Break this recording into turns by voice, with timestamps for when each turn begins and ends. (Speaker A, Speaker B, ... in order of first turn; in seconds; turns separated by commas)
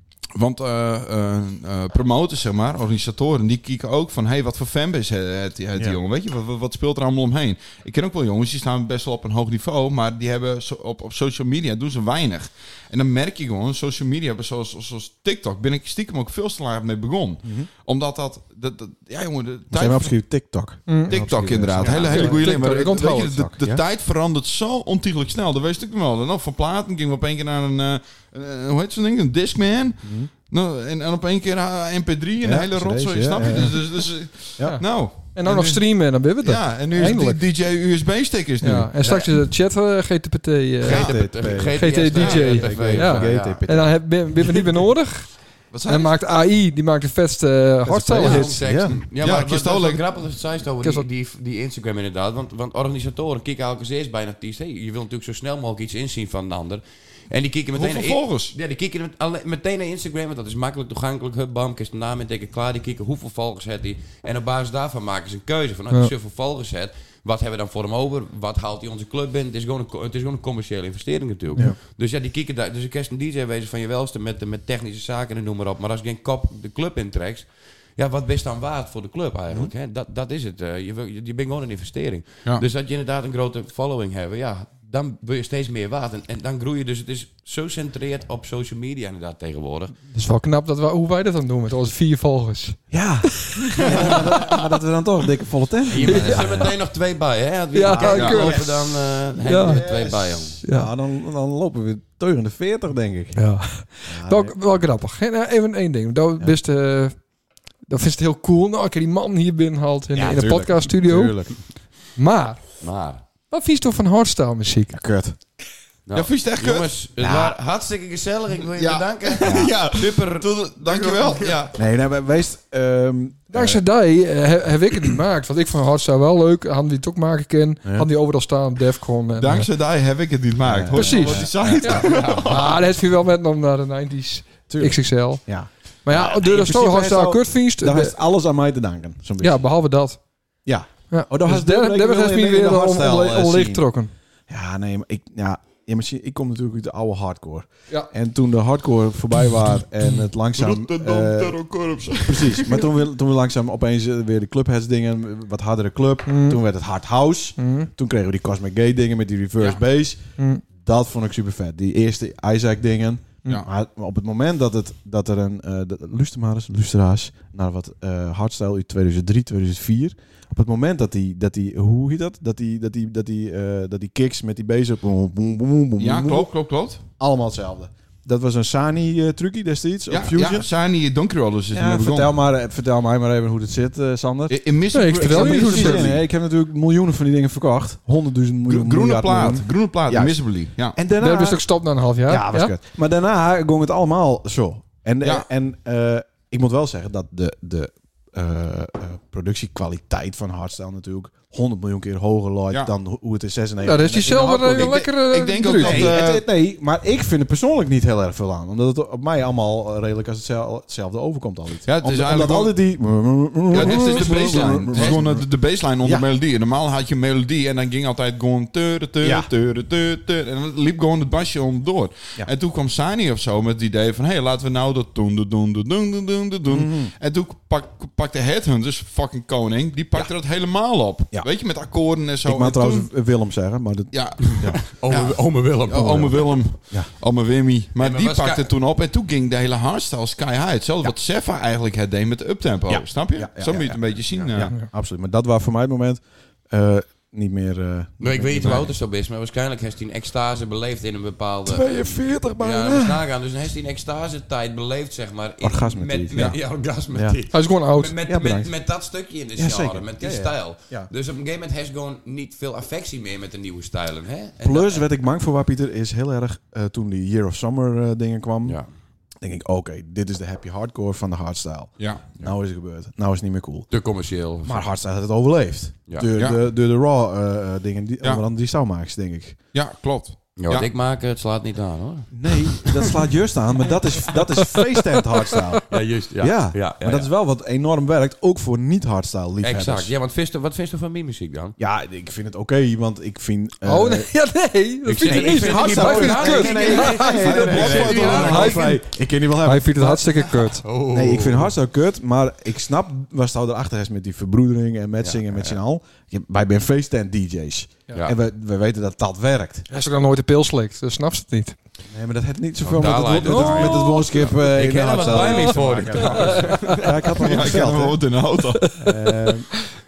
Speaker A: 0.3-20.3, Speaker B: 19.7-23.8, Speaker C: 20.9-21.1, Speaker A: 21.1-38.9, Speaker C: 22.0-23.5, Speaker B: 30.0-30.3, Speaker B: 32.4-34.8, Speaker C: 34.6-37.4, Speaker C: 38.6-41.1, Speaker D: 39.0-39.3, Speaker D: 40.8-43.6, Speaker B: 40.8-44.1, Speaker C: 41.7-48.6, Speaker A: 42.1-42.5, Speaker A: 45.7-46.2, Speaker B: 47.8-49.0, Speaker D: 48.1-89.9, Speaker A: 49.2-50.0, Speaker A: 57.7-58.5, Speaker C: 90.1-93.6, Speaker B: 92.9-96.7, Speaker D: 95.9-100.6, Speaker C: 96.0-96.6, Speaker C: 97.7-98.7, Speaker B: 97.9-98.6, Speaker A: 98.1-98.5, Speaker C: 99.4-99.9, Speaker B: 99.6-103.5, Speaker C: 100.6-100.9, Speaker C: 103.3-107.2, Speaker B: 104.0-104.6, Speaker C: 107.8-111.6, Speaker B: 110.1-111.6, Speaker C: 112.1-112.8, Speaker D: 112.8-113.2, Speaker C: 113.5-115.0, Speaker B: 114.9-115.3, Speaker D: 116.0-121.6, Speaker A: 116.1-116.9, Speaker B: 117.2-117.6, Speaker A: 118.7-121.8, Speaker B: 121.7-123.8, Speaker C: 123.5-129.7, Speaker B: 127.8-128.1, Speaker A: 129.3-132.8, Speaker B: 130.6-132.1, Speaker C: 130.9-138.1, Speaker D: 131.9-132.5, Speaker B: 134.7-139.6, Speaker C: 139.4-140.2, Speaker B: 140.6-143.9, Speaker C: 141.1-144.1, Speaker B: 144.5-151.6, Speaker A: 150.5-152.8, Speaker B: 152.2-176.5, Speaker C: 156.3-156.6, Speaker C: 157.6-157.9, Speaker C: 160.4-160.6, Speaker A: 176.0-177.0, Speaker B: 177.2-180.7, Speaker A: 180.1-182.3, Speaker B: 181.7-191.6, Speaker A: 184.5-186.2, Speaker C: 184.9-186.1, Speaker A: 188.7-191.0, Speaker C: 191.2-192.7, Speaker B: 192.2-205.0, Speaker C: 203.8-206.1, Speaker A: 204.2-206.4, Speaker B: 205.8-215.5, Speaker A: 211.8-212.8, Speaker A: 213.7-233.1, Speaker D: 213.7-215.2, Speaker B: 216.0-216.2, Speaker B: 219.2-219.5, Speaker B: 226.7-227.1, Speaker B: 232.4-234.8, Speaker A: 234.1-244.7, Speaker D: 234.5-236.5, Speaker B: 235.9-237.1, Speaker D: 238.0-238.7, Speaker B: 242.9-248.9, Speaker D: 248.2-265.1, Speaker B: 251.7-253.2, Speaker B: 255.6-257.4, Speaker C: 257.5-258.2, Speaker B: 258.2-258.7, Speaker B: 259.6-261.1, Speaker B: 264.6-268.8, Speaker B: 269.4-273.9, Speaker A: 272.0-272.5, Speaker D: 273.9-274.9, Speaker B: 274.6-279.6, Speaker A: 279.7-280.9, Speaker D: 280.6-283.2, Speaker B: 282.3-290.1, Speaker D: 285.9-287.3, Speaker D: 289.6-291.8, Speaker B: 291.8-294.3, Speaker C: 293.8-299.0, Speaker D: 295.0-298.8, Speaker B: 295.2-300.3, Speaker A: 297.0-298.8, Speaker C: 299.6-300.8, Speaker D: 300.3-301.7, Speaker B: 301.1-309.9, Speaker D: 305.2-305.8, Speaker D: 308.1-308.4, Speaker C: 309.9-311.8, Speaker B: 312.1-318.3, Speaker D: 312.8-317.3, Speaker C: 313.4-314.2, Speaker C: 316.2-317.0, Speaker A: 317.4-318.8, Speaker C: 318.8-319.1, Speaker B: 319.0-319.8